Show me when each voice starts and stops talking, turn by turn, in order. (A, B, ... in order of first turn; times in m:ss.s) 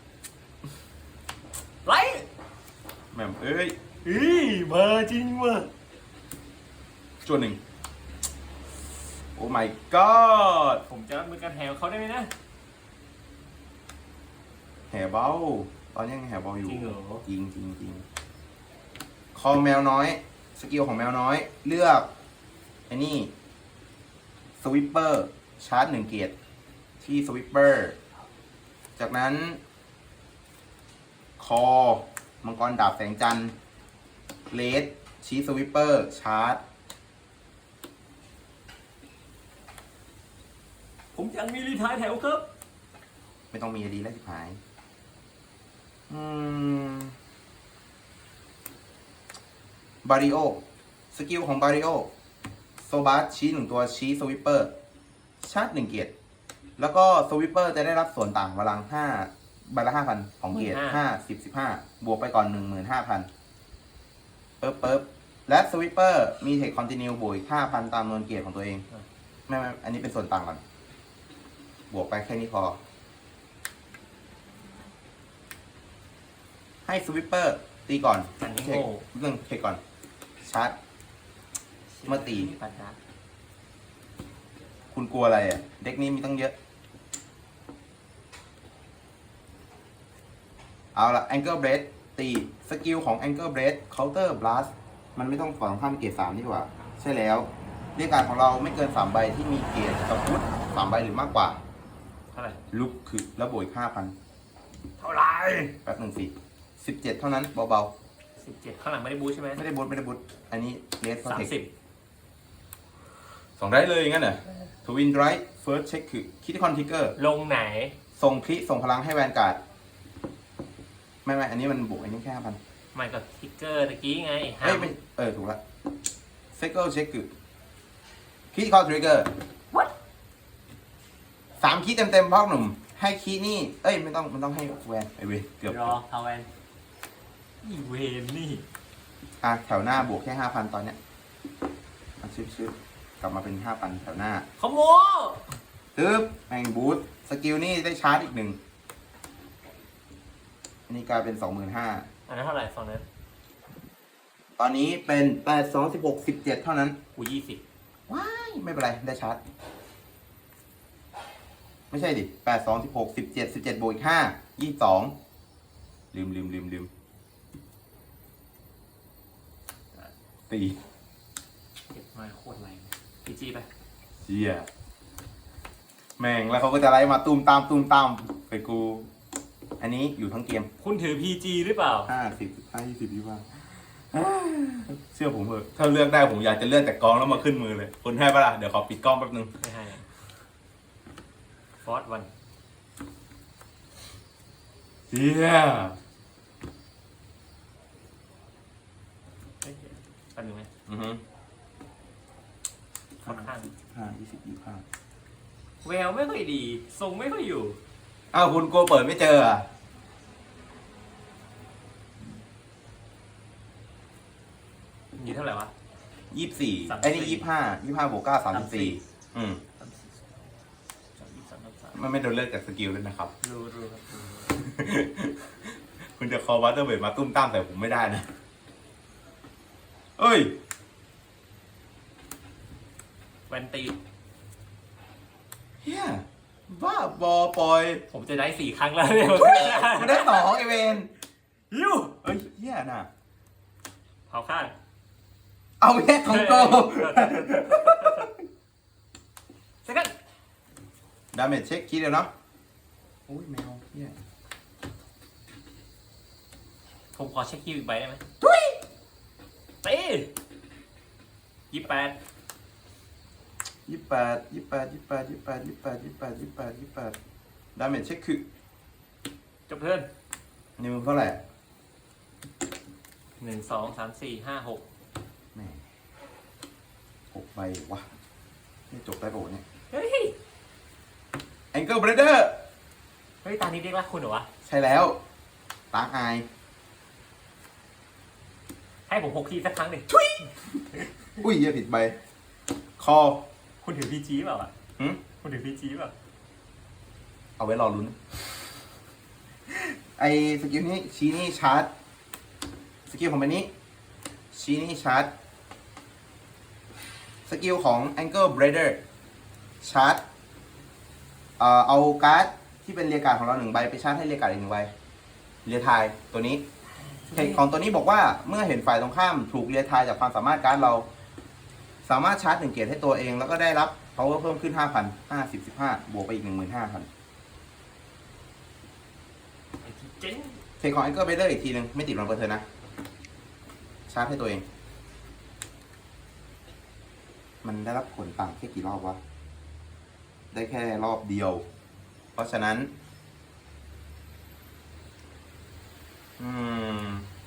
0:01.8-0:02.3 A
0:03.1-0:03.7 B
0:04.0-0:05.7 A
0:07.2-0:07.6 B
0:09.4-0:10.8 B
0:10.9-0:12.3 A
0:14.9-0:18.0 B
0:16.6-0:17.2 A
0:19.3-0:22.1 B
0:22.9-0:23.3 B
0:24.6-0:26.3 B
0:27.0-0:28.0 B
0:29.0-0:29.6 B
0:31.4-0:33.5 B
0:34.5-0:36.6 B
0:41.1-0:42.5 A
0:43.5-0:44.6 B
0:46.1-0:47.1 B
0:50.0-0:52.1 B
0:52.8-0:54.7 B
0:55.4-0:56.1 B
0:56.8-1:03.3 B
1:00.5-1:01.0 A
1:04.6-1:08.8 B
1:09.5-1:10.6 B
1:11.9-1:12.8 B
1:16.8-1:19.8 B
1:18.4-1:19.0 A
1:20.4-1:20.8 B
1:21.9-1:23.0 A
1:22.1-1:22.5 B
1:24.9-1:26.5 B
1:30.9-1:41.6 B
1:42.3-1:42.6 A
1:42.7-1:44.1 B
1:45.0-1:45.8 A
1:45.8-1:47.9 B
1:48.4-1:49.6 A
1:49.6-1:51.5 B
1:51.2-1:51.7 A
1:53.6-1:57.2 B
1:57.2-1:58.0 A
1:58.1-1:59.6 B
2:01.2-2:02.6 B
2:02.9-2:04.9 A
2:04.6-2:05.6 B
2:06.5-2:07.3 B
2:08.5-2:09.3 B
2:11.6-2:16.0 B
2:15.6-2:16.5 A
2:17.6-2:18.6 A
2:19.4-2:21.0 B
2:22.2-2:24.5 B
2:24.6-2:25.5 A
2:26.0-2:28.6 B
2:30.9-2:32.0 B
2:32.3-2:33.0 A
2:34.6-2:37.0 B
2:37.2-2:37.6 A
2:38.1-2:39.4 B
2:41.9-2:45.1 B
2:46.1-2:46.9 B
2:50.5-2:50.8 B
2:51.9-2:53.7 A
2:54.2-2:54.7 B
2:56.2-2:59.1 B
2:59.8-3:00.7 B
3:00.8-3:02.1 A
3:02.0-3:09.5 B
3:09.6-3:10.1 A
3:11.8-3:12.3 A
3:15.1-3:16.0 B
3:19.6-3:20.7 A
3:20.9-3:21.2 B
3:23.2-3:23.7 A
3:23.2-3:24.8 B
3:25.8-3:27.8 A
3:28.3-3:29.6 B
3:35.2-3:35.7 A
3:36.3-3:39.6 B
3:36.9-3:37.5 A
3:38.5-3:39.0 A
3:39.8-3:40.3 A
3:41.2-3:42.0 A
3:41.9-3:43.3 B
3:43.4-3:44.6 A
3:44.5-3:45.5 B
3:46.2-3:48.3 B
3:50.2-3:50.5 B
3:53.5-3:54.0 A
3:55.8-3:58.0 B
3:58.1-4:00.6 A
3:59.3-4:01.1 B
4:01.7-4:02.2 A
4:02.2-4:03.1 B
4:04.3-4:04.7 A
4:05.8-4:08.4 B
4:06.2-4:08.3 A
4:09.8-4:10.1 A
4:11.3-4:12.3 B
4:13.3-4:14.2 B
4:17.1-4:18.2 A
4:18.4-4:18.8 B
4:19.8-4:20.3 A
4:21.7-4:22.2 A
4:23.9-4:27.2 B
4:27.8-4:28.4 B
4:29.7-4:30.1 A
4:30.8-4:31.4 B
4:33.4-4:34.8 A
4:35.5-4:35.8 B
4:37.3-4:38.1 B
4:38.9-4:39.6 B
4:39.9-4:40.4 A
4:41.7-4:42.6 B
4:43.4-4:44.5 A
4:44.6-4:45.2 B
4:45.9-4:46.4 B
4:49.1-4:50.1 A
4:50.1-4:52.2 B
4:53.0-4:53.4 B
4:53.8-4:54.7 A
4:55.4-4:56.1 A
4:57.6-4:58.3 B
5:00.2-5:01.9 B
5:03.1-5:03.7 B
5:04.5-5:05.3 B
5:07.4-5:09.0 B
5:09.8-5:10.2 B
5:11.6-5:14.9 B
5:15.6-5:16.6 B
5:17.2-5:17.6 A
5:17.3-5:21.1 B
5:22.0-5:27.1 B
5:29.8-5:30.6 A
5:30.8-5:32.6 B
5:34.1-5:34.6 B
5:37.6-5:39.2 B
5:40.5-5:41.6 B
5:42.4-5:42.9 B
5:46.4-5:47.3 B